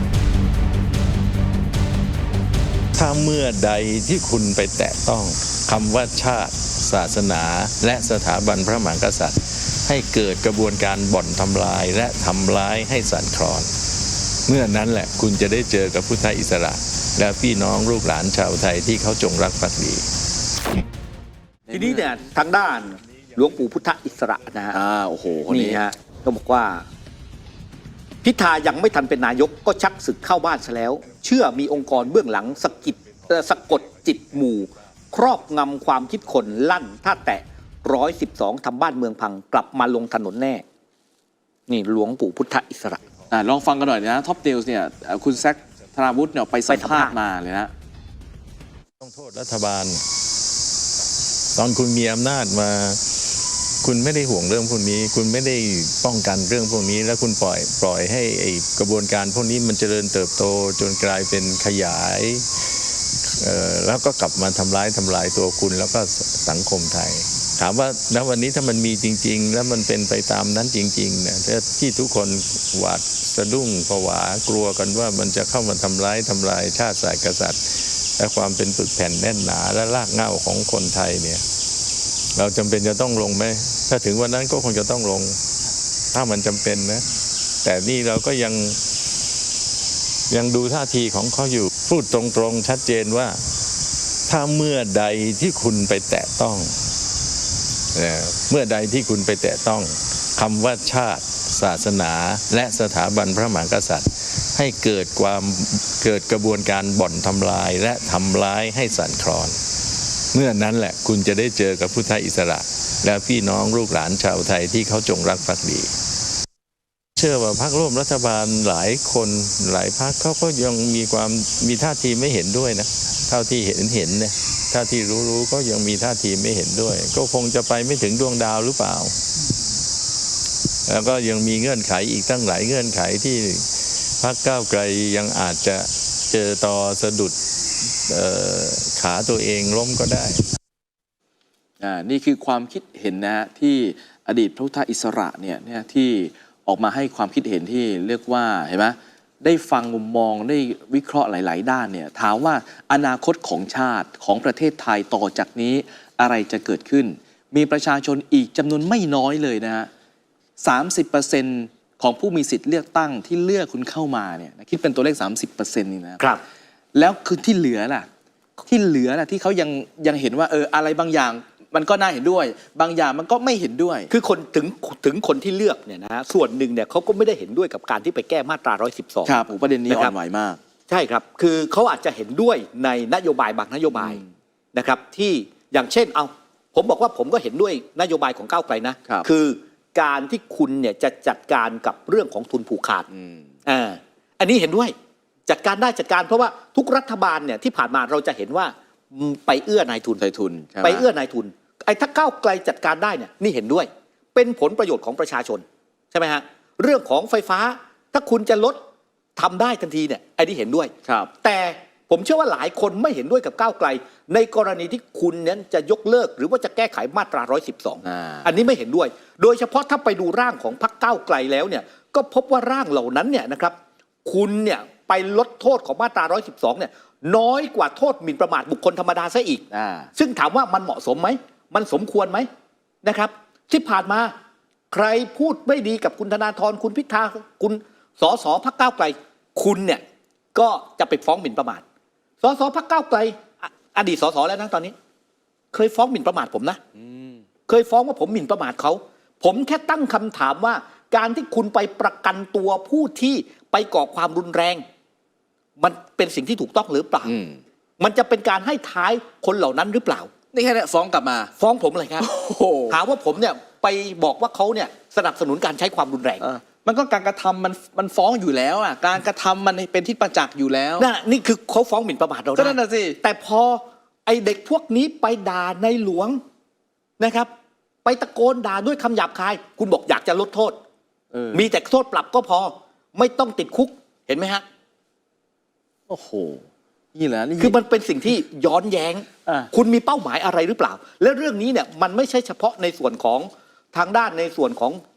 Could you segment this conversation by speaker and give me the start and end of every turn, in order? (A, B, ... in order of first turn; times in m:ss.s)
0:03.0-0:13.7 A
0:14.5-0:20.0 A
0:21.7-0:22.0 B
0:21.7-0:24.8 C
0:24.7-0:25.8 B
0:25.5-0:26.8 C
0:28.2-0:40.6 C
0:41.7-0:43.0 C
0:43.3-0:47.7 B
0:46.7-0:47.2 C
0:49.0-0:50.0 A
0:51.6-0:53.2 A
0:53.8-1:02.5 A
1:03.4-1:21.4 A
1:22.4-1:25.4 A
1:26.1-1:27.0 A
1:27.6-1:28.8 A
1:30.3-1:33.4 A
1:34.3-1:36.8 A
1:38.0-1:49.6 A
1:50.3-1:55.9 A
1:57.2-2:09.1 A
2:10.9-2:17.4 A
2:18.1-2:20.4 A
2:21.8-2:39.9 B
2:40.6-2:46.2 B
2:47.0-2:48.1 B
2:48.7-2:54.1 B
2:54.1-3:00.1 C
2:59.3-3:00.6 B
3:00.9-3:04.2 C
3:04.0-3:04.2 B
3:04.7-3:13.1 C
3:13.1-3:13.5 B
3:13.7-3:14.9 C
3:15.5-3:20.2 C
3:20.2-3:21.0 B
3:20.8-3:28.8 C
3:29.4-3:52.5 C
3:31.0-3:31.3 B
3:38.1-3:38.5 B
3:49.7-3:50.1 B
3:53.0-3:54.3 C
3:54.9-4:00.0 C
4:00.6-4:01.8 C
4:02.4-4:04.9 C
4:05.7-4:06.8 C
4:07.0-4:07.4 B
4:07.7-4:14.8 C
4:15.8-4:17.3 C
4:17.3-4:17.6 B
4:18.0-4:20.3 C
4:20.5-4:21.5 B
4:21.6-4:22.3 C
4:22.2-4:23.0 B
4:22.9-4:26.4 C
4:26.4-4:31.1 B
4:31.0-4:36.4 C
4:32.6-4:33.2 B
4:37.2-4:37.5 C
4:38.0-4:40.8 C
4:41.3-4:41.6 B
4:41.5-4:44.6 C
4:46.1-4:46.6 B
4:47.2-4:47.8 B
4:47.6-4:55.0 C